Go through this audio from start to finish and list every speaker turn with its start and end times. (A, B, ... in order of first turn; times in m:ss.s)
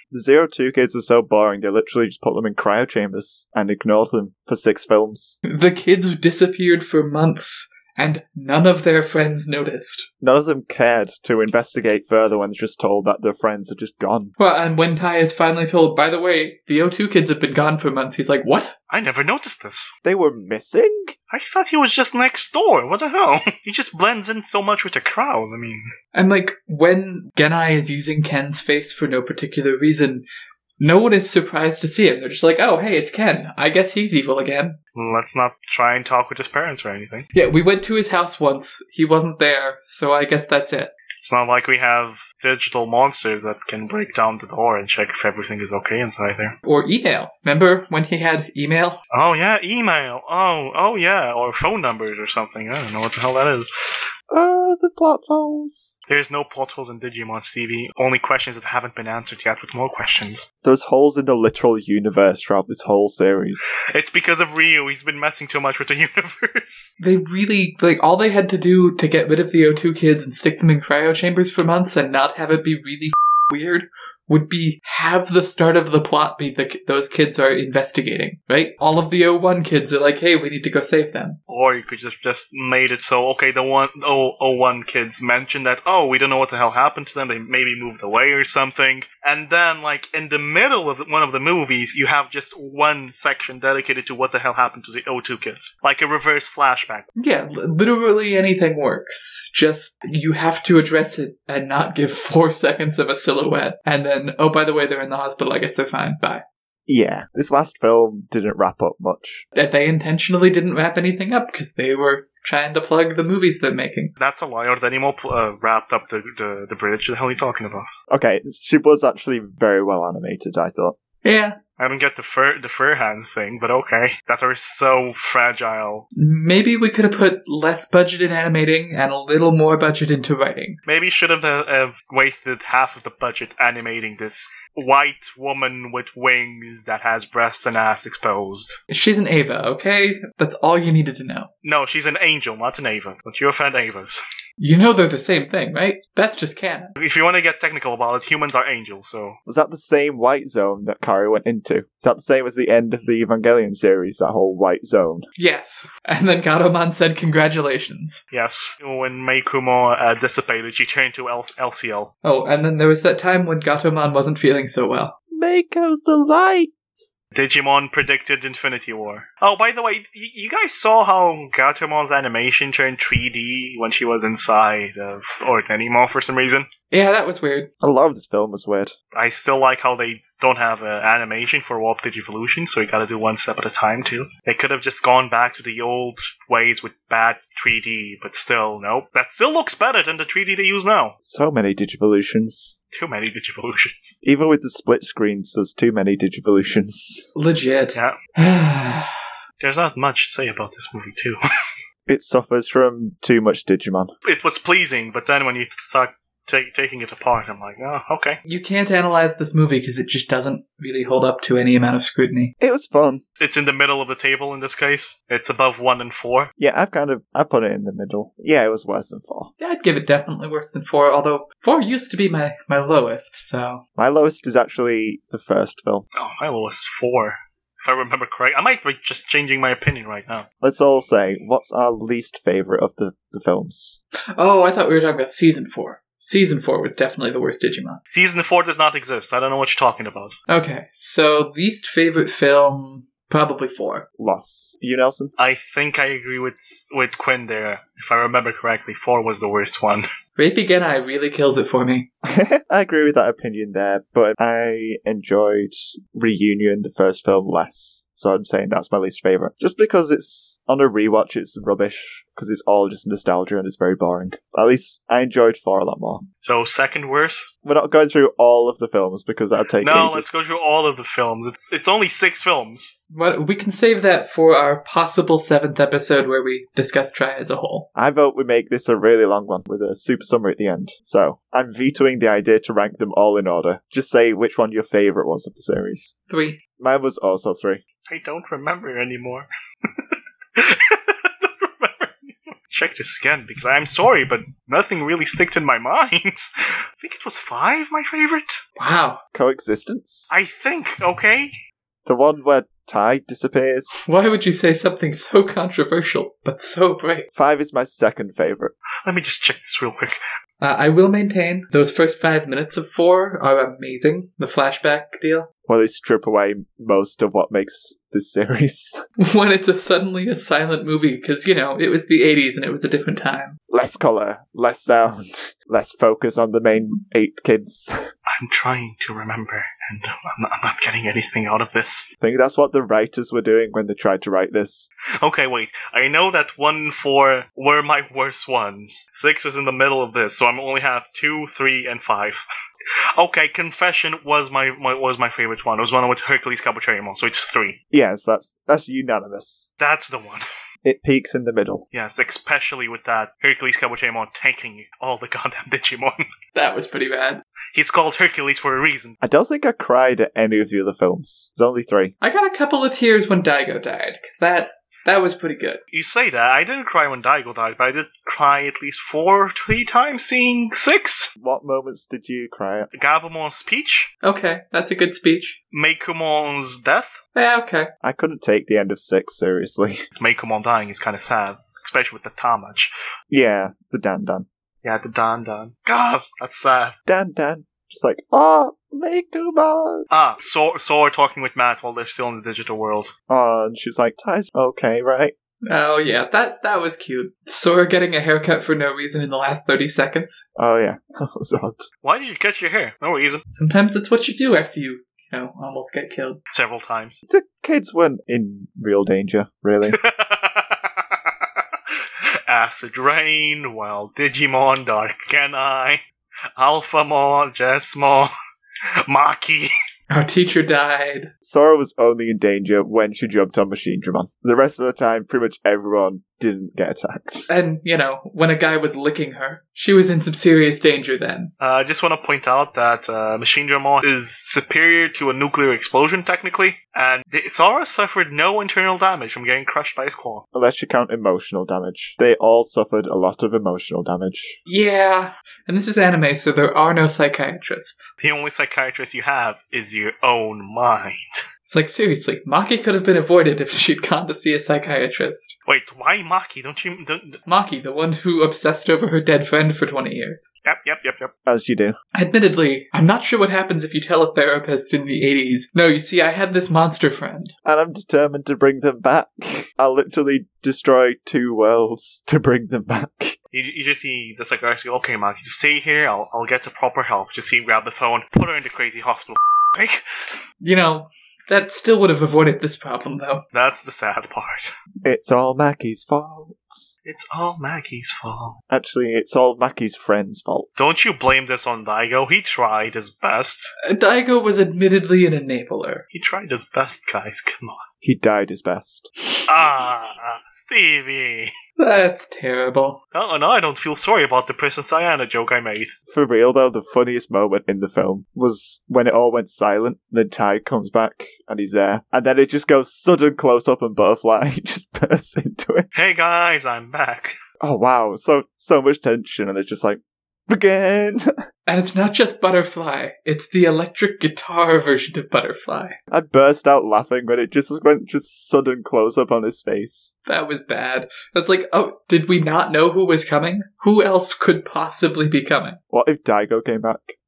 0:00.1-0:05.4 A
0:05.4-0:10.1 B
0:10.2-0:14.3 A
0:14.4-0:18.7 B
0:18.9-0:19.9 C
0:20.0-0:21.1 A
0:21.3-0:25.9 C
0:26.1-0:30.2 B
0:30.8-0:34.8 B
0:34.9-0:37.3 C
0:37.3-0:40.9 B
0:41.2-0:46.6 C
0:46.6-0:49.0 B
0:49.1-0:53.7 C
0:54.3-0:56.0 A
0:56.1-1:00.4 C
1:00.6-1:03.7 A
1:03.9-1:06.9 C
1:07.0-1:21.4 B
1:21.5-1:37.0 C
1:37.2-1:46.4 B
1:46.9-1:49.4 A
1:49.5-1:54.1 B
1:54.2-1:57.9 C
1:58.1-2:01.0 A
2:01.2-2:01.6 B
2:01.8-2:06.0 C
2:06.2-2:10.8 B
2:10.8-2:18.8 C
2:18.9-2:21.5 B
2:21.6-2:24.2 C
2:24.6-2:26.9 B
2:27.0-2:29.4 C
2:29.4-2:35.2 A
2:35.4-2:38.2 B
2:38.3-2:42.1 C
2:42.2-2:45.2 B
2:45.3-2:47.1 A
2:47.3-2:56.7 C
2:56.9-2:57.7 B
2:57.8-2:58.9 A
2:59.1-3:11.1 C
3:11.2-3:12.8 A
3:12.9-3:14.1 C
3:14.2-3:17.3 A
3:17.4-3:19.1 B
3:19.6-3:21.4 C
3:22.1-3:24.1 A
3:24.2-3:28.4 C
3:28.4-3:32.5 B
3:32.6-3:33.2 A
3:33.4-3:36.5 C
3:36.6-3:39.5 A
3:39.6-3:43.8 B
3:44.0-3:46.0 A
3:46.2-3:50.4 C
3:50.6-3:54.0 A
3:54.4-3:58.0 B
3:58.1-4:00.3 C
4:00.5-4:04.1 B
4:04.2-4:05.3 A
4:05.4-4:10.1 C
4:10.4-4:12.1 B
4:12.2-4:26.2 A
4:26.4-4:27.5 C
4:27.6-4:30.4 A
4:29.8-4:32.9 C
4:33.1-4:37.9 B
4:38.0-4:46.1 A
4:46.3-4:46.6 B
4:46.8-4:47.8 A
4:48.1-4:58.6 C
4:58.8-4:59.2 B
4:59.3-5:00.3 A
5:00.3-5:01.5 C
5:02.0-5:04.0 A
5:04.0-5:07.3 B
5:07.3-5:08.7 A
5:09.0-5:10.2 C
5:10.6-5:15.5 B
5:15.6-5:19.0 A
5:19.2-5:23.6 B
5:23.7-5:28.0 A
5:28.3-5:32.1 C
5:32.2-5:34.9 A
5:35.2-5:42.4 C
5:43.2-5:47.8 C
5:47.9-5:49.7 A
5:49.8-5:50.4 C
5:50.8-5:51.8 A
5:51.9-5:56.2 C
5:56.5-5:57.4 B
5:57.7-5:59.2 C
5:59.2-6:02.1 A
6:02.2-6:05.8 B
6:05.9-6:11.3 C
6:11.4-6:12.9 A
6:12.9-6:14.1 C
6:14.2-6:15.6 B
6:15.7-6:17.2 C
6:17.3-6:17.9 B
6:18.0-6:20.0 A
6:20.2-6:22.9 C
6:23.3-6:24.4 A
6:24.8-6:27.0 C
6:27.0-6:30.0 A
6:30.1-6:33.1 C
6:33.3-6:35.3 A
6:35.6-6:40.4 B
6:40.6-6:41.9 A
6:42.0-6:43.4 C
6:43.5-6:46.4 B
6:46.5-6:47.2 C
6:47.2-6:50.0 A
6:49.9-6:51.6 C
6:52.5-6:56.0 C
6:56.6-6:58.3 C
6:59.0-6:59.7 C
7:00.1-7:01.3 B
7:01.4-7:07.5 A
7:07.5-7:11.5 B
7:11.6-7:20.4 C
7:20.5-7:24.6 A
7:24.7-7:28.1 B
7:28.2-7:31.4 C
7:31.6-7:35.5 B
7:35.7-7:37.4 C
7:37.5-7:40.5 B
7:40.6-7:41.3 C
7:41.4-7:42.0 A
7:42.1-7:47.5 B
7:47.6-7:53.4 A
7:53.5-8:00.4 C
8:00.6-8:03.4 B
8:03.5-8:04.7 C
8:05.0-8:06.9 A
8:07.0-8:08.5 C
8:08.7-8:10.7 A
8:10.8-8:13.7 C
8:13.8-8:16.0 B
8:16.1-8:17.8 C
8:18.0-8:19.1 A
8:19.5-8:21.5 C
8:21.8-8:23.0 B
8:23.1-8:25.9 C
8:26.1-8:35.9 A
8:35.9-8:37.3 C
8:37.6-8:41.3 A
8:41.7-8:46.0 B
8:46.1-8:50.1 A
8:50.2-8:55.8 B
8:55.9-8:57.1 A